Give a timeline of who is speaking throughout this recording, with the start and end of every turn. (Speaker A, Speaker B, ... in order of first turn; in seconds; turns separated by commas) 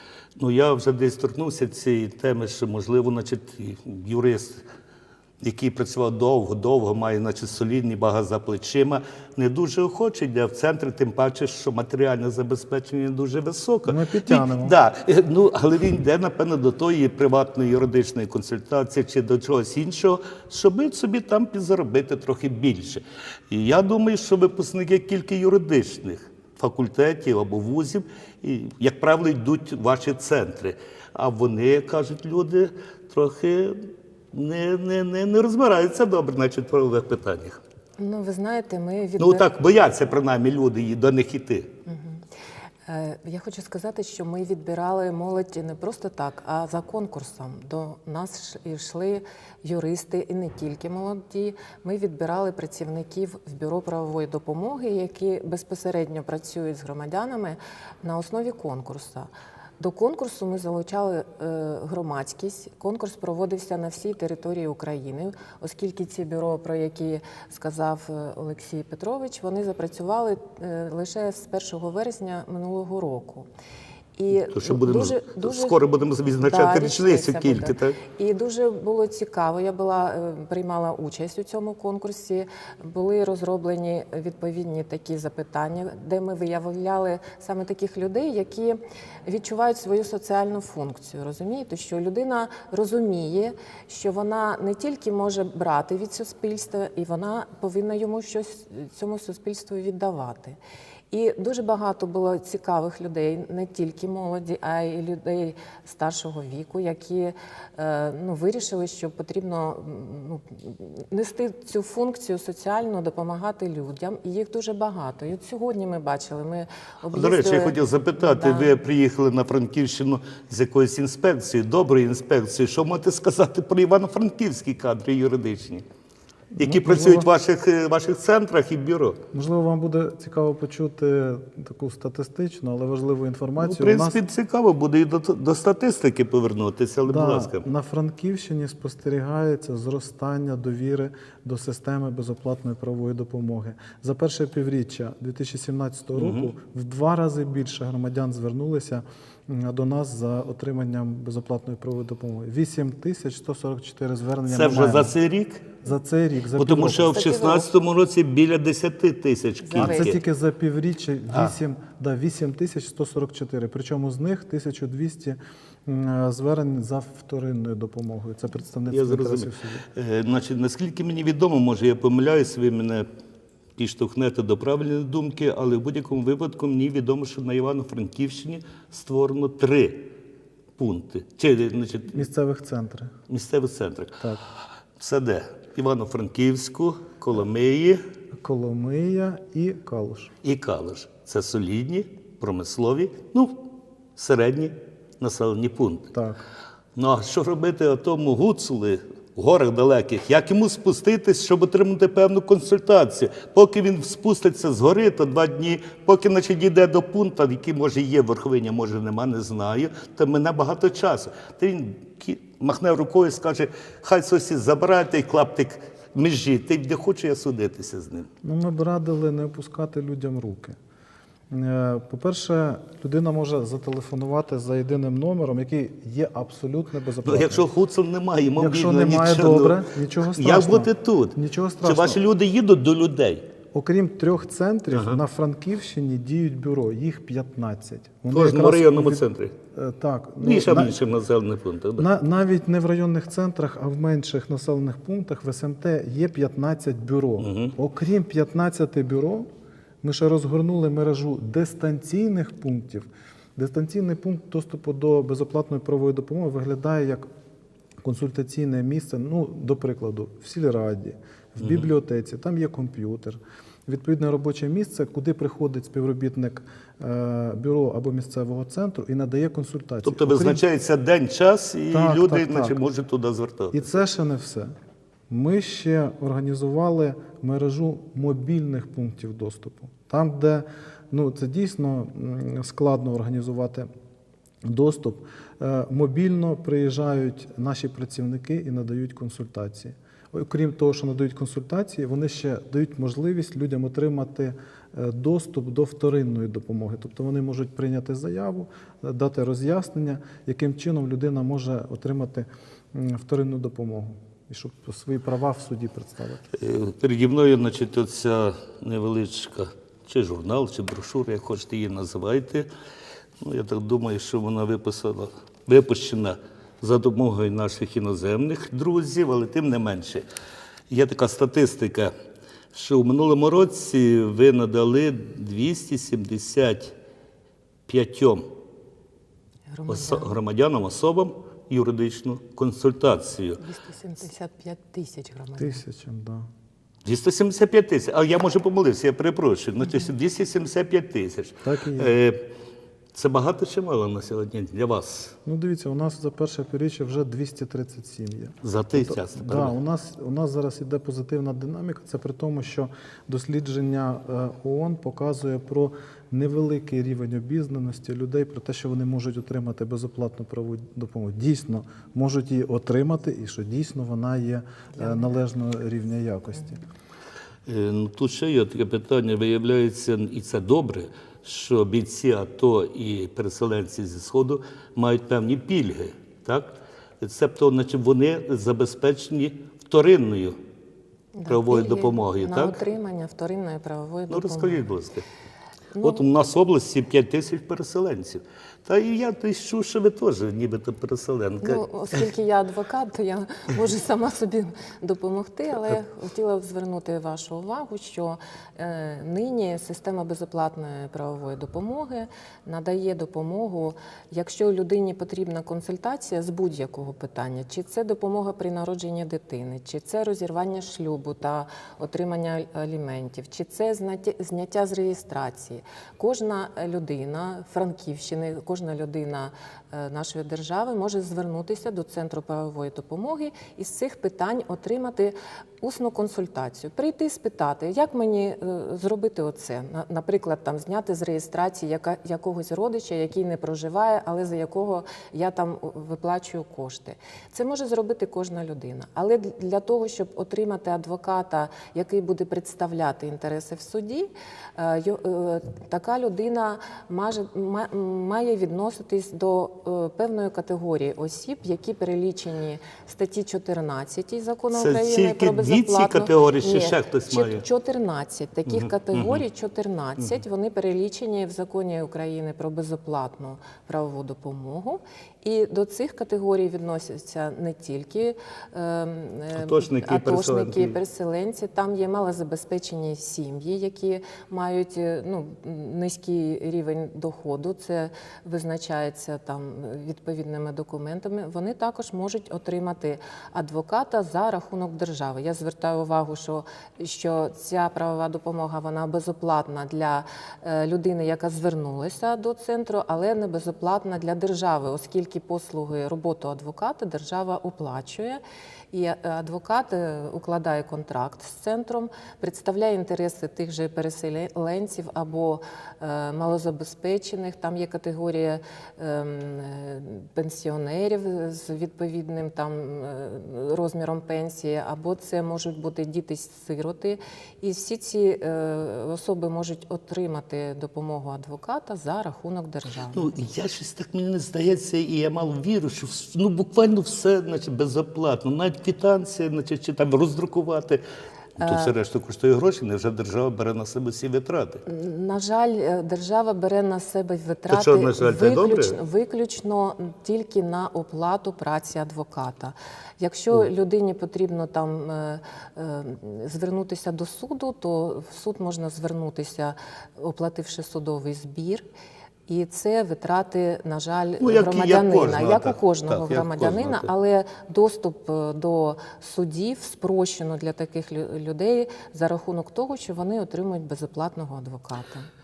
Speaker A: 0.4-4.6, Speaker A: 5.4-37.6, Speaker B: 13.9-14.7, Speaker C: 38.0-39.5, Speaker A: 39.2-41.7, Speaker C: 41.9-42.2, Speaker C: 42.9-73.5, Speaker C: 74.2-75.8, Speaker A: 74.4-78.0, Speaker C: 76.4-100.6, Speaker C: 101.1-118.7, Speaker A: 117.1-125.8, Speaker B: 126.5-127.3, Speaker A: 126.6-129.2, Speaker B: 129.3-134.2, Speaker A: 133.6-137.6, Speaker B: 137.1-155.1, Speaker A: 146.1-146.5, Speaker A: 154.5-155.7, Speaker B: 155.8-157.2, Speaker A: 156.6-160.2, Speaker C: 157.1-157.7, Speaker C: 159.6-160.1, Speaker B: 159.8-169.8, Speaker A: 168.9-173.1, Speaker A: 173.8-180.1, Speaker A: 180.8-182.2, Speaker B: 182.1-183.1, Speaker A: 183.3-184.2, Speaker A: 185.0-188.0, Speaker B: 188.3-190.3, Speaker A: 190.4-196.1, Speaker B: 196.1-196.4, Speaker A: 196.9-218.3, Speaker B: 218.4-220.8, Speaker B: 221.5-227.7, Speaker A: 227.2-233.4, Speaker B: 228.6-232.2, Speaker B: 233.7-240.9, Speaker A: 234.9-235.2, Speaker A: 238.3-239.5, Speaker A: 240.4-242.1, Speaker B: 242.0-249.5, Speaker A: 247.4-247.7, Speaker B: 250.0-257.2, Speaker B: 258.0-270.6, Speaker A: 270.0-274.0, Speaker B: 271.9-272.8, Speaker B: 273.7-274.7, Speaker B: 275.3-283.9, Speaker B: 284.6-306.4, Speaker A: 306.5-312.7, Speaker A: 313.4-320.2, Speaker A: 320.9-322.1, Speaker A: 322.7-326.9, Speaker A: 327.9-328.5, Speaker C: 329.7-330.3, Speaker A: 329.9-333.6, Speaker C: 333.6-335.8, Speaker B: 335.6-336.5, Speaker A: 337.0-342.4, Speaker B: 341.6-342.1, Speaker A: 343.1-345.4, Speaker B: 345.4-366.8, Speaker A: 348.6-349.7, Speaker A: 367.7-380.6, Speaker C: 381.3-384.9, Speaker A: 381.5-382.8, Speaker A: 384.3-385.2, Speaker C: 385.9-386.2, Speaker A: 386.0-391.8, Speaker C: 391.6-498.4, Speaker A: 454.7-457.6, Speaker A: 458.7-459.4, Speaker A: 469.5-471.0, Speaker C: 498.9-523.3, Speaker A: 523.1-531.0, Speaker A: 531.6-534.8, Speaker C: 531.6-531.9, Speaker C: 534.9-551.8, Speaker A: 537.7-539.0, Speaker C: 552.5-565.3, Speaker A: 554.4-557.1